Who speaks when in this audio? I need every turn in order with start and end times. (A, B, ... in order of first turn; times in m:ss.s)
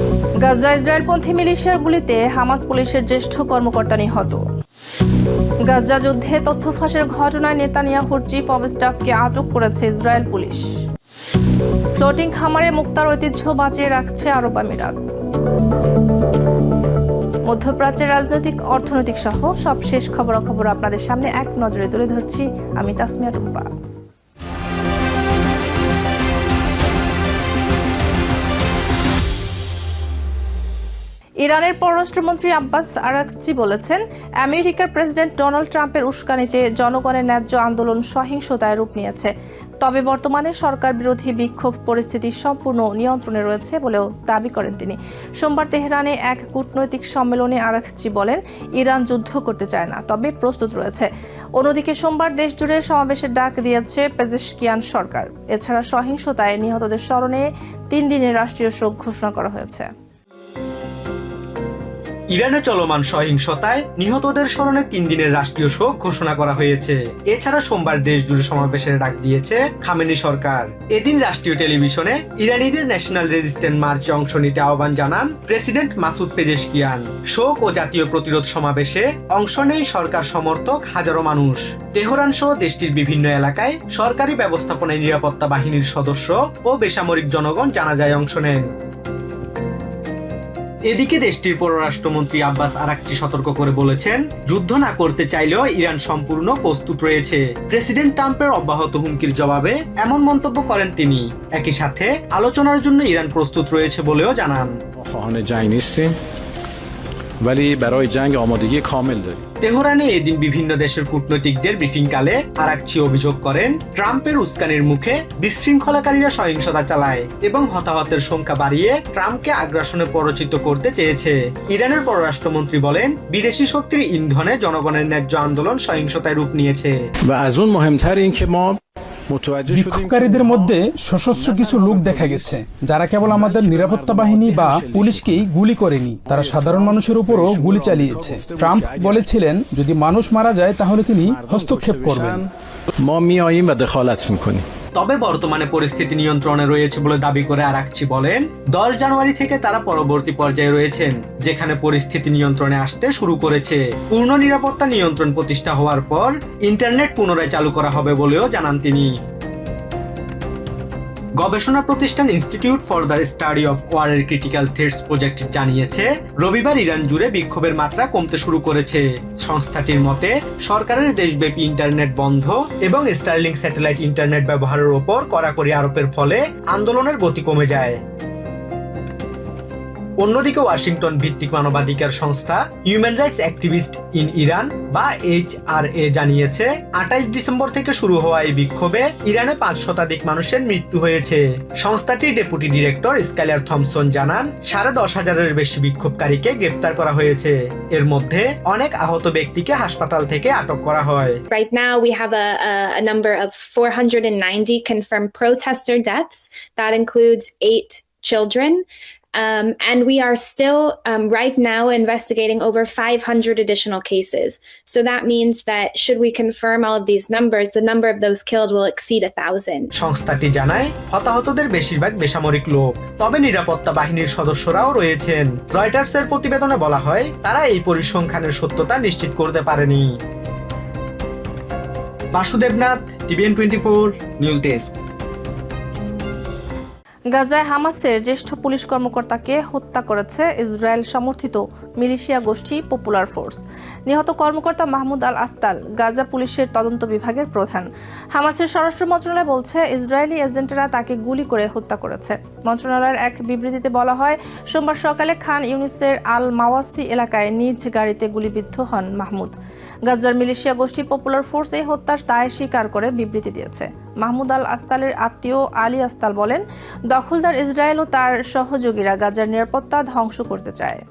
0:00.4-0:04.4 A
0:05.7-0:10.7 A
0:12.0-0:15.1 A
0:17.4-0:23.7 A
0:31.4-0:39.3 A
0:39.8-0:59.9 A
1:02.3-1:28.6 B
1:30.9-1:44.7 B
1:45.0-1:46.1 C
1:47.4-1:49.4 C
1:49.6-2:06.9 B
2:07.2-2:08.8 C
2:09.3-2:12.6 C
2:09.7-2:22.4 D
2:13.2-2:15.5 C
2:16.2-2:19.3 C
2:21.2-2:22.5 C
2:23.0-2:24.6 C
2:25.0-2:39.1 B
2:41.4-2:58.0 B
3:00.2-3:21.4 B
3:21.5-3:28.8 E
3:29.4-3:39.8 E
3:40.0-3:50.0 B
3:52.3-3:55.0 B
3:57.3-4:19.5 A
4:20.1-4:31.0 A